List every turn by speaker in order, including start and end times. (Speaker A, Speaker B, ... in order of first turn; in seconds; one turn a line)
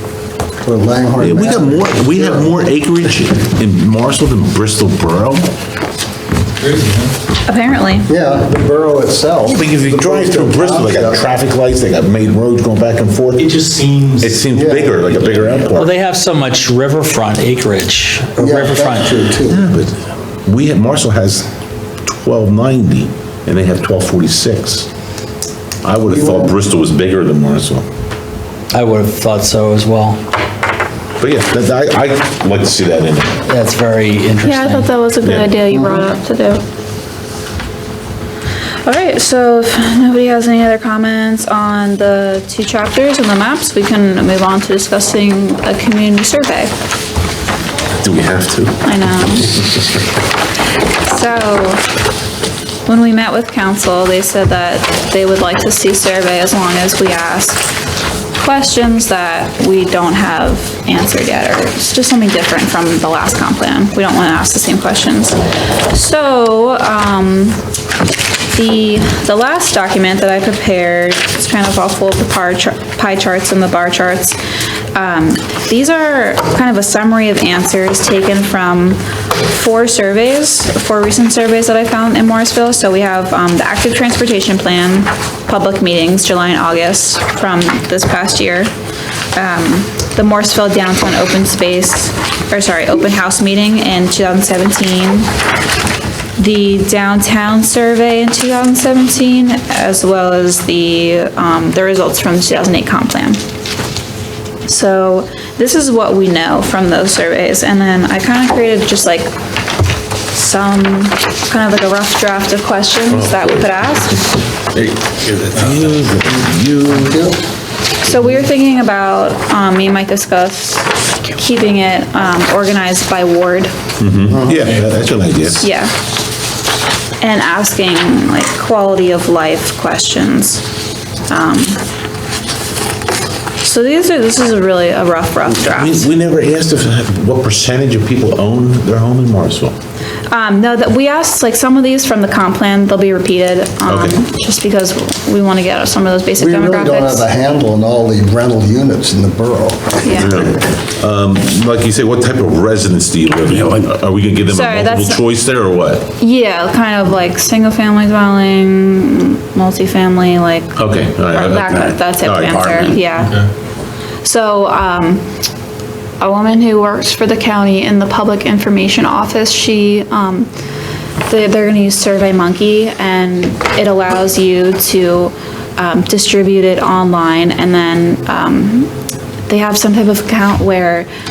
Speaker A: 0.6-2.5
Speaker B: 1.2-5.5
Speaker C: 6.6-7.1
Speaker D: 7.4-8.1
Speaker A: 8.1-11.2
Speaker B: 9.5-13.5
Speaker C: 13.4-14.1
Speaker B: 14.2-15.9
Speaker A: 14.5-15.0
Speaker C: 15.7-16.1
Speaker E: 15.7-19.1
Speaker A: 18.4-19.6
Speaker C: 18.4-18.9
Speaker B: 19.5-19.9
Speaker B: 20.4-21.4
Speaker B: 22.0-24.9
Speaker B: 25.8-27.8
Speaker A: 26.1-26.6
Speaker E: 28.7-30.2
Speaker B: 31.2-33.4
Speaker E: 33.5-34.9
Speaker D: 34.4-36.6
Speaker B: 35.2-35.5
Speaker A: 35.7-36.1
Speaker D: 38.8-46.7
Speaker B: 48.0-48.8
Speaker D: 48.8-49.6
Speaker D: 51.0-51.9
Speaker D: 52.9-57.6
Speaker D: 58.4-67.6
Speaker D: 68.5-74.4
Speaker D: 74.9-88.7
Speaker D: 89.3-95.3
Speaker D: 96.4-103.4
Speaker D: 104.7-109.3
Speaker D: 110.3-114.3
Speaker B: 113.1-113.8
Speaker B: 114.7-117.2
Speaker A: 116.9-117.3
Speaker D: 118.0-123.7
Speaker B: 124.0-125.6
Speaker A: 124.3-124.7
Speaker D: 125.6-126.0
Speaker D: 127.2-130.6
Speaker D: 131.3-131.8
Speaker D: 133.6-136.1
Speaker B: 135.5-139.7
Speaker D: 140.3-147.2
Speaker B: 143.8-144.2
Speaker A: 146.4-150.6
Speaker D: 150.0-150.4
Speaker B: 150.1-156.1
Speaker D: 154.5-155.2
Speaker D: 156.2-163.4
Speaker B: 160.7-163.1
Speaker D: 164.2-165.2
Speaker D: 166.2-170.5
Speaker D: 171.2-178.9
Speaker D: 179.5-181.1